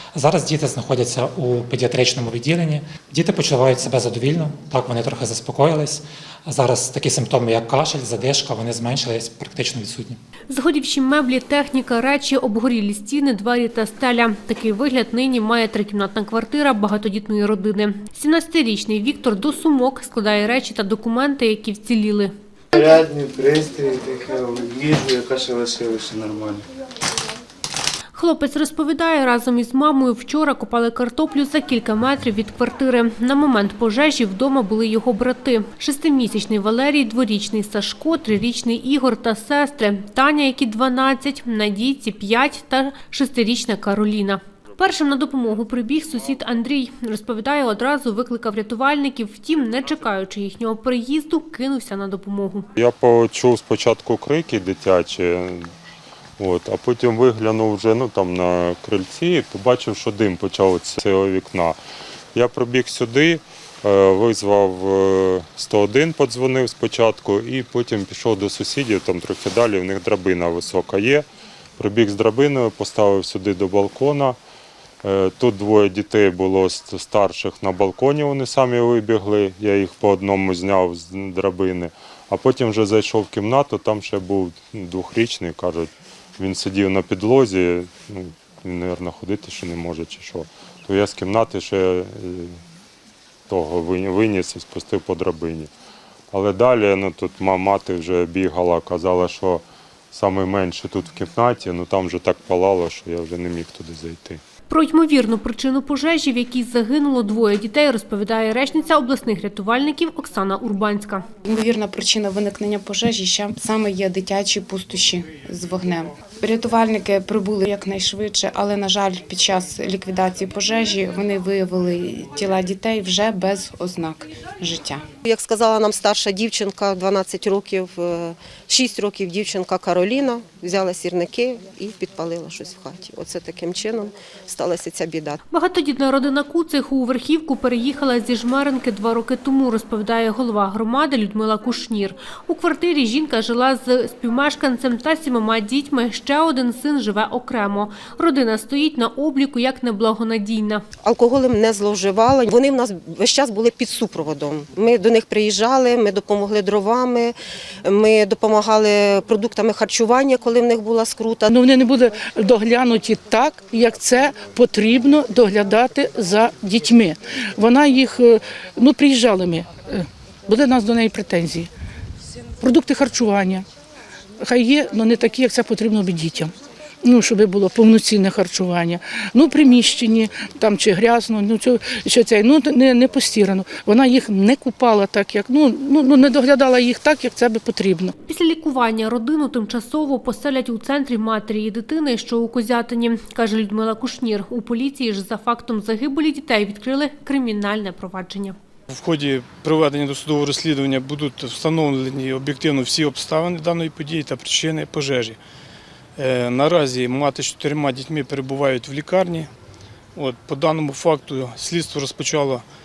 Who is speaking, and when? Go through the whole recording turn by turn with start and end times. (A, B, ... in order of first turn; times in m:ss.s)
0:00.2-0:10.2 A
0:10.5-0:22.3 B
0:22.7-0:26.7 C
0:28.2-0:52.7 B
0:52.8-0:55.7 D
0:56.4-1:01.8 D
1:02.4-1:11.2 D
1:11.8-1:14.4 D
1:15.0-1:32.6 D
1:33.5-1:35.7 D
1:36.3-1:44.4 D
1:44.7-1:51.3 B
1:51.4-2:05.0 E
2:05.2-2:15.4 F
2:15.5-2:30.8 B
2:31.0-2:41.5 F
2:41.5-2:51.7 G
2:52.6-2:53.7 G
2:54.4-2:56.5 G
2:57.0-3:08.1 G
3:08.2-3:18.6 B
3:18.9-3:25.4 H
3:26.2-3:29.5 H
3:30.2-3:32.6 H